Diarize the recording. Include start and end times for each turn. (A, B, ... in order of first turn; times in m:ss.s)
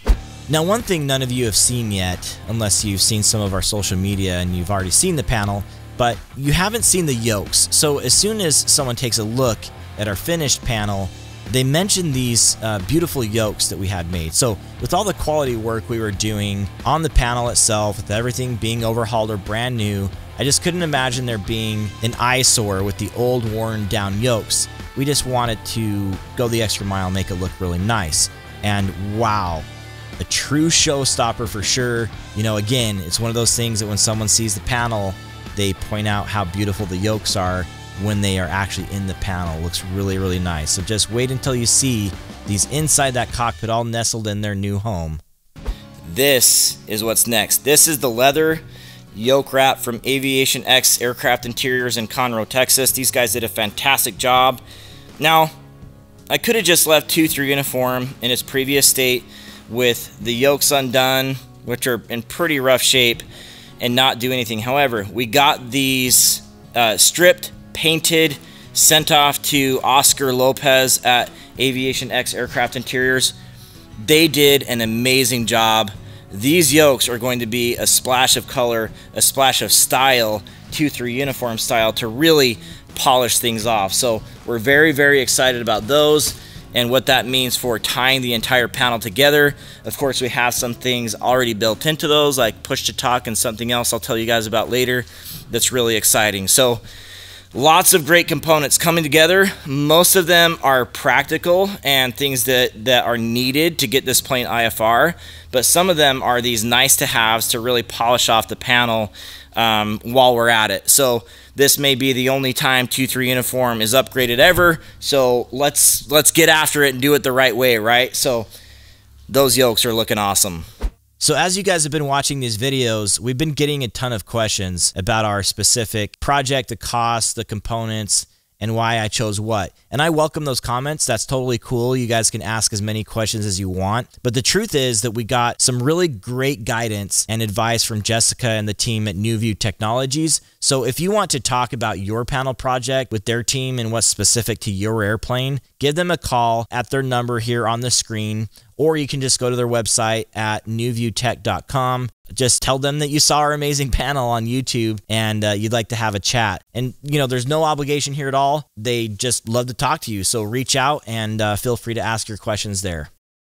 0:00.5-0:29.7 A
0:30.2-0:45.2 A
0:46.0-0:54.6 A
0:55.2-0:55.5 A
0:56.3-1:03.2 A
1:03.8-1:13.3 A
1:14.0-1:36.8 A
1:37.5-1:58.5 A
1:59.3-2:00.6 A
2:01.2-2:43.1 A